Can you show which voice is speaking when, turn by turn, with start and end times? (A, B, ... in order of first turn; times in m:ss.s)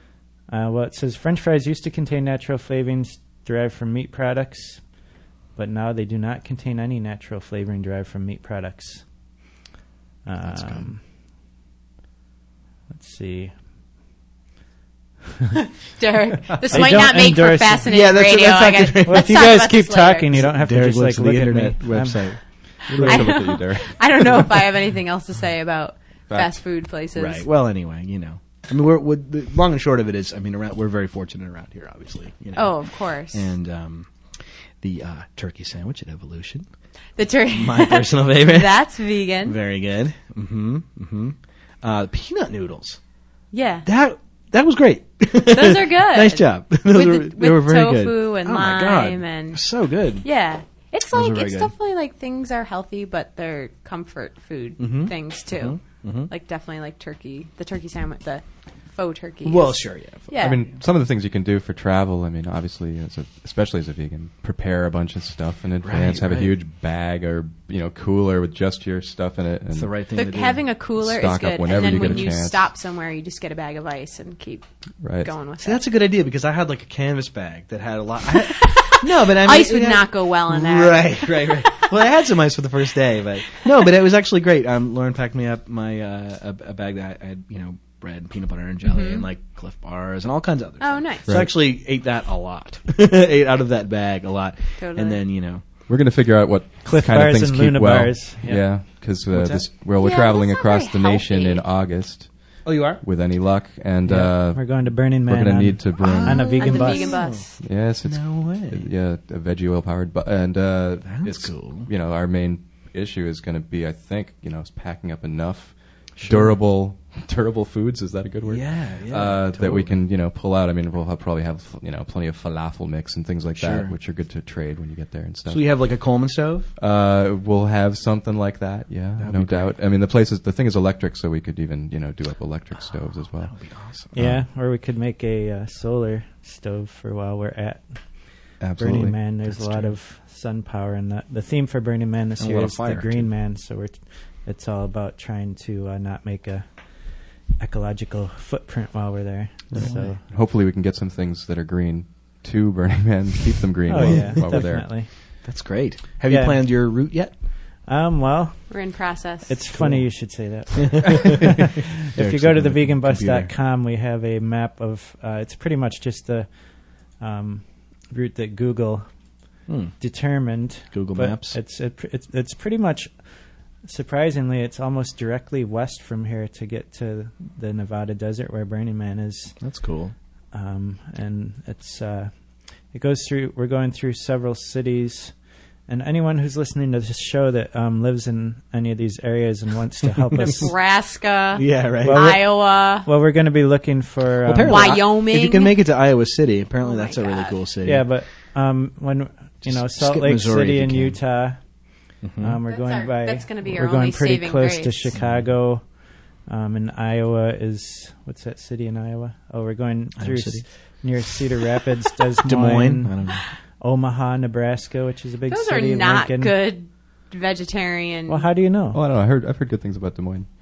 0:00.5-0:04.9 A
0:05.6-0:09.1 A
0:10.3-0:11.0 A
0:10.5-0:10.8 B
0:12.9-0:13.6 A
0:15.6-0:20.3 C
0:16.7-0:17.9 A
0:17.9-0:19.6 B
0:19.0-0:23.3 A
0:20.3-0:22.5 B
0:22.9-0:24.5 D
0:23.0-0:27.5 C
0:26.3-0:26.5 D
0:27.2-0:36.7 B
0:32.5-0:33.5 C
0:37.2-0:39.6 C
0:37.5-0:38.8 B
0:39.4-0:43.0 B
0:43.5-0:43.9 C
0:43.8-0:50.2 B
0:45.5-0:49.7 C
0:50.2-1:00.6 C
0:51.1-0:51.7 B
0:54.8-0:56.3 B
0:59.4-1:00.3 B
1:00.4-1:09.9 D
1:05.8-1:06.5 B
1:09.7-1:10.6 B
1:10.1-1:14.6 C
1:11.0-1:12.7 D
1:11.8-1:12.3 B
1:15.0-1:15.3 D
1:15.2-1:15.8 C
1:15.6-1:35.6 B
1:18.5-1:21.9 C
1:28.8-1:29.2 C
1:30.8-1:31.4 C
1:34.8-1:35.2 C
1:35.9-1:46.5 D
1:36.8-1:38.6 A
1:39.3-1:39.7 B
1:40.0-1:41.6 C
1:42.6-1:43.0 B
1:44.1-1:47.2 A
1:46.0-1:48.9 B
1:46.4-1:47.6 C
1:47.6-2:05.8 D
1:51.0-1:51.9 B
1:56.2-1:56.6 B
1:58.4-2:00.0 B
2:03.6-2:04.0 B
2:05.5-2:06.7 B
2:06.8-2:14.4 D
2:09.2-2:09.7 B
2:12.9-2:14.2 B
2:14.2-2:30.2 A
2:18.6-2:19.2 D
2:19.6-2:19.9 B
2:22.4-2:23.3 B
2:29.7-2:34.9 D
2:29.8-2:30.1 B
2:33.9-2:35.4 A
2:34.0-2:37.3 B
2:36.3-2:36.8 A
2:37.8-2:49.1 A
2:38.7-2:39.6 C
2:39.8-2:40.1 B
2:40.8-2:43.5 B
2:49.7-2:50.0 B
2:50.0-2:53.1 A
2:50.9-2:51.6 B
2:53.8-2:59.6 A
2:59.6-3:00.1 B
3:00.5-3:02.3 A
3:02.9-3:05.3 A
3:05.9-3:10.7 A
3:10.4-3:13.1 C
3:11.6-3:12.4 B
3:12.0-3:14.9 A
3:14.4-3:18.1 B
3:14.7-3:15.8 C
3:16.8-3:17.6 C
3:17.8-3:21.6 A
3:19.6-3:21.2 B
3:22.2-3:22.6 B
3:22.4-3:36.5 A
3:22.7-3:25.1 C
3:25.1-3:25.5 B
3:30.2-3:30.7 B
3:32.5-3:33.4 B
3:35.5-3:38.5 C
3:38.3-3:39.0 A
3:38.9-3:40.5 D